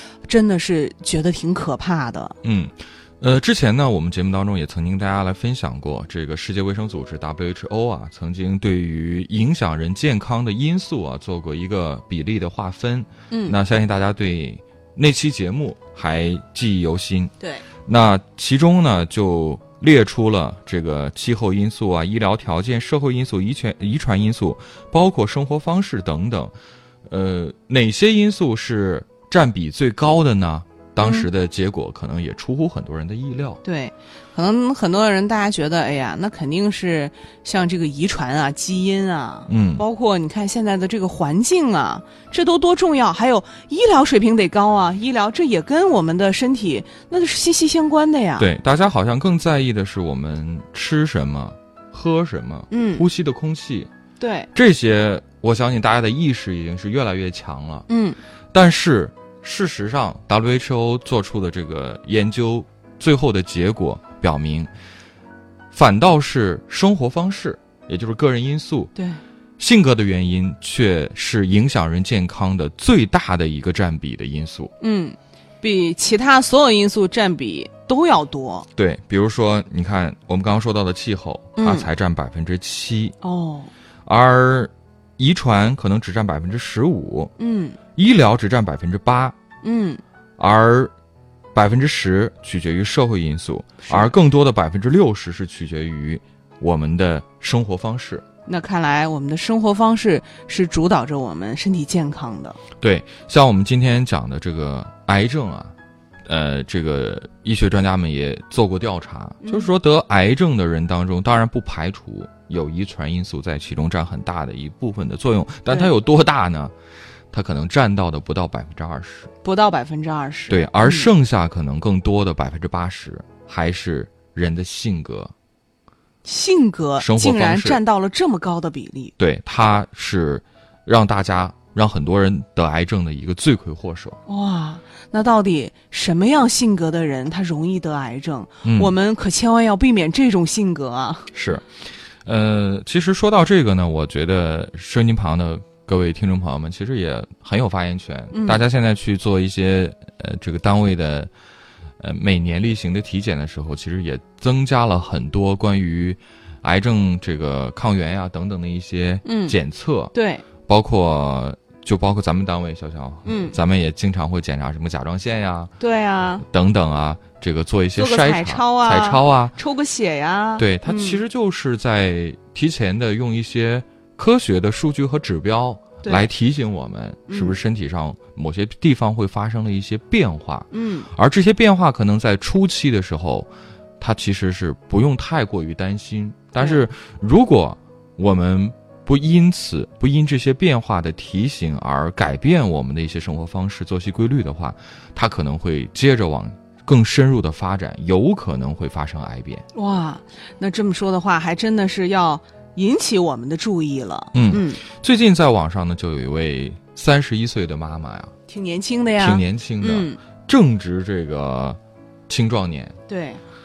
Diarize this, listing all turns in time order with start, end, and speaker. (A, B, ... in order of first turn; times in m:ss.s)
0:00.2-0:02.3 A
0:02.4-0:17.3 B
0:13.3-0:13.6 A
0:17.8-0:26.5 B
0:27.1-0:33.6 B
0:31.0-0:31.3 A
0:33.6-0:48.5 A
0:39.5-0:39.8 B
0:48.4-0:53.9 B
0:52.7-0:53.0 A
0:54.2-0:54.5 A
0:54.5-0:57.8 B
0:57.9-0:58.2 A
0:58.5-1:04.7 B
1:05.7-1:08.9 B
1:09.6-1:14.7 B
1:14.8-1:18.7 A
1:18.8-1:23.2 B
1:21.6-1:21.9 A
1:23.2-1:23.7 A
1:24.0-1:27.3 B
1:27.4-1:27.8 A
1:28.0-1:29.4 B
1:29.6-1:30.0 A
1:30.4-1:30.9 B
1:31.5-1:38.2 B
1:33.8-1:34.1 A
1:38.4-1:42.6 A
1:42.8-1:45.7 B
1:46.3-1:56.7 B
1:49.4-1:49.7 A
1:57.3-1:59.3 B
1:59.4-2:01.1 A
2:00.5-2:05.3 B
2:06.2-2:09.1 A
2:07.0-2:07.8 B
2:09.2-2:14.2 B
2:14.3-2:21.3 A
2:18.6-2:18.9 B
2:21.3-2:21.7 B
2:22.2-2:31.3 B
2:28.3-2:28.6 A
2:32.0-2:40.1 B
2:39.2-2:39.6 A
2:40.1-2:40.4 A
2:40.6-2:45.7 B
2:43.2-2:43.6 A
2:45.8-2:46.4 A
2:46.4-2:49.5 B
2:47.9-2:51.2 A
2:50.6-3:03.5 B
2:56.0-2:56.3 A
2:57.3-2:57.6 A
3:00.7-3:01.1 A
3:04.0-3:19.6 B
3:19.7-3:24.8 A
3:24.3-3:28.3 B
3:28.5-3:30.2 A
3:29.2-3:32.9 B
3:33.1-3:33.4 A